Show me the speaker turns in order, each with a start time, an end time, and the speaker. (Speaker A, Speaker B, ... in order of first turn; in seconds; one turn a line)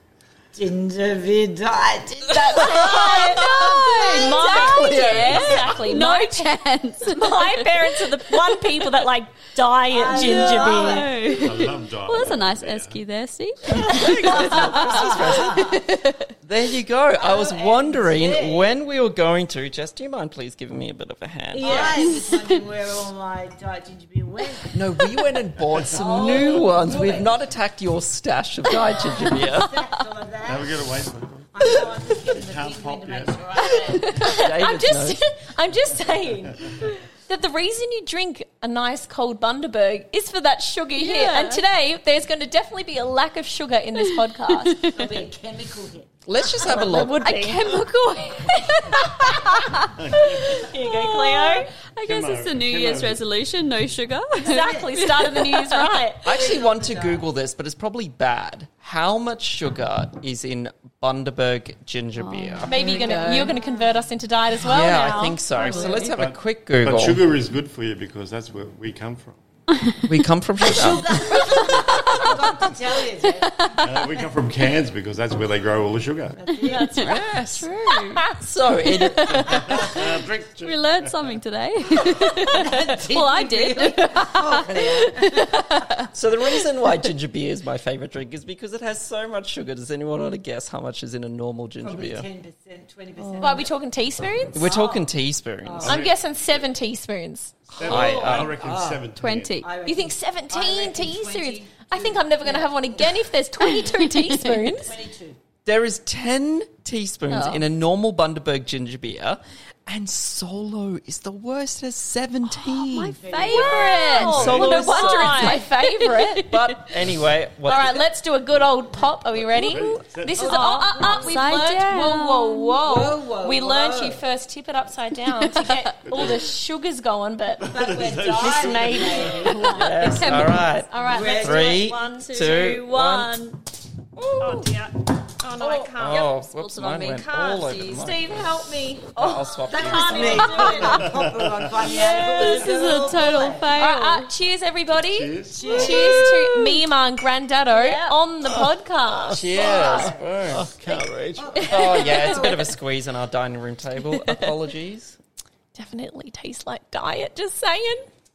Speaker A: 0.5-4.0
Speaker B: 2.3-11.1
Speaker C: 2.8-9.0
Speaker D: 4.3-5.6
Speaker E: 5.5-5.9
Speaker A: 9.9-11.3
Speaker C: 10.1-16.3
Speaker E: 11.3-13.0
Speaker D: 13.7-15.8
Speaker A: 14.1-15.8
Speaker D: 16.4-22.1
Speaker A: 17.2-18.7
Speaker A: 21.5-24.8
Speaker C: 21.6-22.2
Speaker D: 24.7-29.9
Speaker A: 25.9-27.4
Speaker C: 26.1-26.4
Speaker A: 28.8-30.7
Speaker E: 30.4-33.4
Speaker A: 31.5-34.3
Speaker B: 34.1-44.9
Speaker D: 34.3-35.2
Speaker C: 41.0-41.6
Speaker C: 44.6-45.1
Speaker A: 44.9-46.1
Speaker D: 46.2-47.4
Speaker B: 46.6-47.8
Speaker C: 46.6-55.9
Speaker B: 48.9-51.7
Speaker E: 49.9-50.6
Speaker E: 52.0-53.2
Speaker B: 54.4-56.3
Speaker A: 54.4-55.1
Speaker D: 56.2-62.8
Speaker A: 56.3-57.2
Speaker C: 62.2-63.6
Speaker B: 62.6-66.2
Speaker A: 62.8-64.0
Speaker D: 64.6-67.2
Speaker A: 65.6-66.1
Speaker E: 66.1-69.4
Speaker D: 70.0-71.1
Speaker A: 70.6-74.3
Speaker C: 71.3-72.6
Speaker C: 73.4-73.8
Speaker E: 73.8-76.4
Speaker A: 76.4-77.0
Speaker C: 76.6-78.2
Speaker B: 76.6-77.1
Speaker D: 77.0-79.8
Speaker B: 77.6-78.3
Speaker C: 78.8-86.1
Speaker E: 79.3-81.4
Speaker A: 82.2-86.0
Speaker D: 86.1-92.3
Speaker A: 91.8-93.7
Speaker C: 93.2-93.6
Speaker B: 93.4-94.7
Speaker D: 94.5-96.0
Speaker A: 94.6-95.1
Speaker A: 95.6-96.0
Speaker E: 95.8-96.6
Speaker B: 95.8-97.6
Speaker E: 97.7-99.6
Speaker A: 97.8-99.1
Speaker D: 97.8-98.6
Speaker C: 99.2-99.7
Speaker A: 99.6-103.2
Speaker B: 99.8-104.9
Speaker C: 103.8-104.4
Speaker A: 104.7-105.4
Speaker D: 105.6-113.2
Speaker C: 107.3-107.6
Speaker C: 112.7-116.9
Speaker A: 113.1-114.1
Speaker B: 113.4-116.5
Speaker D: 114.1-115.7
Speaker E: 114.2-114.7
Speaker D: 116.4-118.0
Speaker B: 117.7-127.7
Speaker E: 119.3-120.7
Speaker C: 119.7-122.8
Speaker A: 120.4-121.6
Speaker A: 122.8-124.2
Speaker C: 125.5-125.8
Speaker E: 126.1-126.5
Speaker E: 127.6-129.6
Speaker A: 127.7-129.8
Speaker B: 128.4-132.8
Speaker C: 129.7-130.7
Speaker D: 129.7-133.4
Speaker A: 130.9-131.9
Speaker C: 132.2-133.6
Speaker C: 134.2-134.7
Speaker B: 134.4-136.3
Speaker C: 135.6-138.1
Speaker D: 135.9-140.7
Speaker B: 137.9-139.1
Speaker C: 139.1-141.1
Speaker A: 139.7-143.7
Speaker B: 139.8-141.1
Speaker E: 140.9-141.7
Speaker C: 141.8-144.3
Speaker B: 141.8-143.1
Speaker B: 143.7-150.1
Speaker E: 145.0-146.2
Speaker A: 145.5-146.4
Speaker C: 145.8-146.8
Speaker C: 147.7-148.2
Speaker D: 149.3-150.9
Speaker E: 149.5-152.0
Speaker A: 151.4-152.7
Speaker D: 151.6-155.2
Speaker C: 151.8-152.6
Speaker C: 154.2-154.5
Speaker B: 155.8-158.1